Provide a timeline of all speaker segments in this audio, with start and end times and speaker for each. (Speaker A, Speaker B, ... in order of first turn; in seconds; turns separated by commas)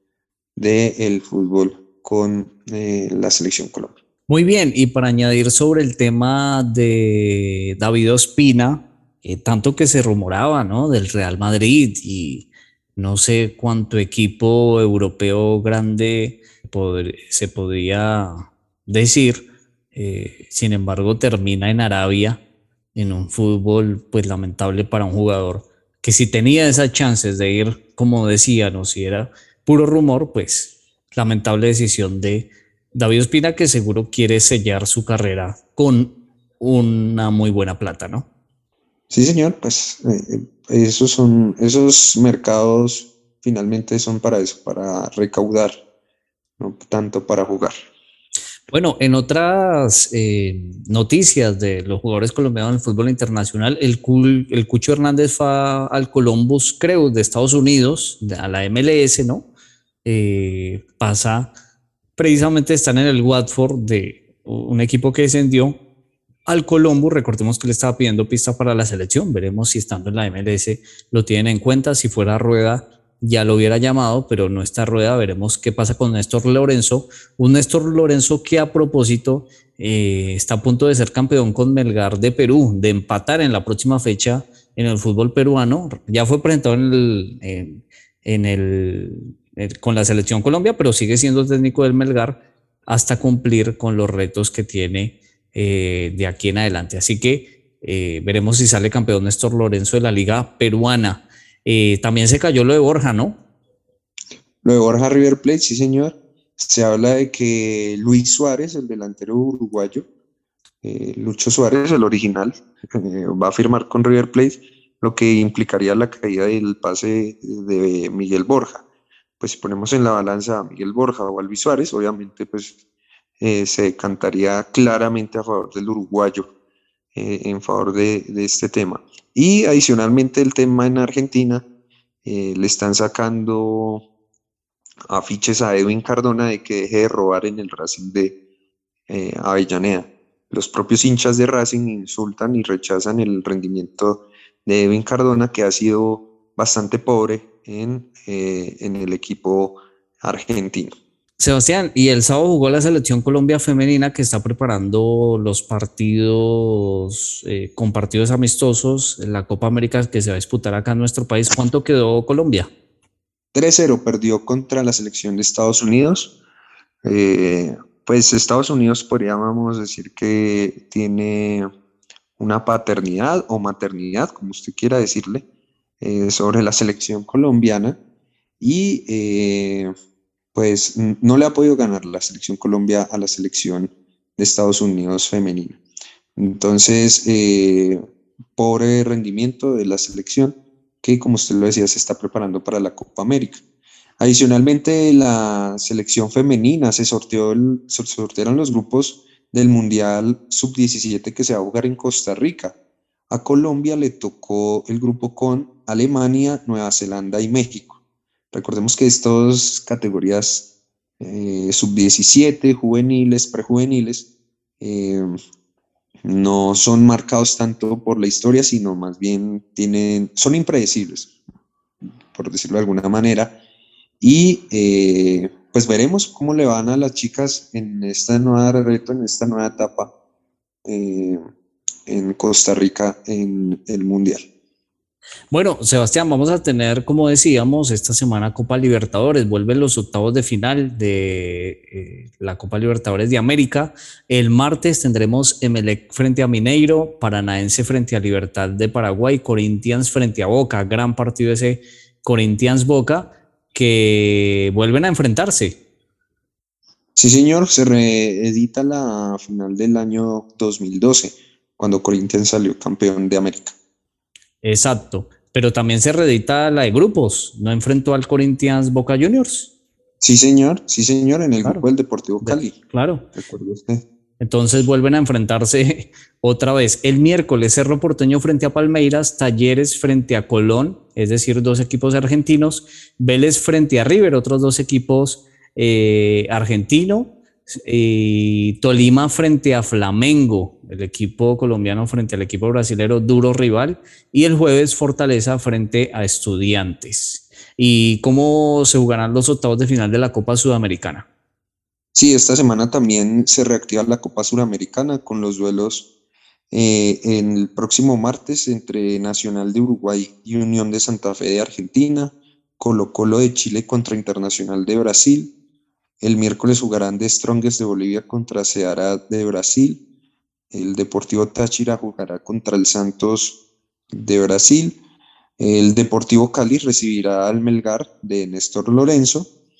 Speaker A: 0.6-3.9, Speaker B: 4.3-22.4, Speaker B: 22.9-38.3, Speaker A: 39.1-45.7, Speaker A: 46.6-47.7, Speaker B: 48.7-59.5, Speaker B: 60.0-61.5, Speaker B: 62.2-65.8, Speaker B: 66.5-103.4, Speaker A: 104.6-110.0, Speaker A: 110.8-118.8, Speaker A: 119.4-122.8, Speaker A: 123.4-126.5, Speaker A: 127.1-131.6, Speaker A: 132.2-134.0, Speaker A: 135.1-138.3, Speaker A: 139.1-150.9, Speaker B: 151.4-162.7, Speaker A: 163.5-166.3, Speaker A: 167.0-171.7, Speaker A: 172.4-175.4, Speaker A: 176.0-178.0, Speaker A: 178.6-179.9, Speaker A: 180.5-185.8, Speaker A: 186.4-188.0, Speaker A: 188.6-193.6, Speaker A: 194.2-202.7, Speaker A: 203.3-208.0, Speaker A: 208.5-210.7, Speaker A: 211.2-214.3, Speaker A: 214.8-215.3, Speaker A: 216.2-221.3, Speaker A: 222.3-223.5, Speaker A: 224.2-230.1, Speaker A: 230.8-231.4, Speaker A: 232.1-234.4, Speaker B: 235.5-255.8, Speaker A: 257.1-263.7, Speaker B: 264.6-269.7, Speaker A: 270.2-272.8, Speaker B: 272.4-273.2, Speaker A: 273.3-274.0, Speaker B: 274.4-301.2, Speaker A: 302.1-306.1, Speaker A: 306.7-315.5, Speaker A: 316.2-320.0, Speaker A: 320.7-323.6, Speaker A: 324.1-325.0, Speaker A: 325.6-329.5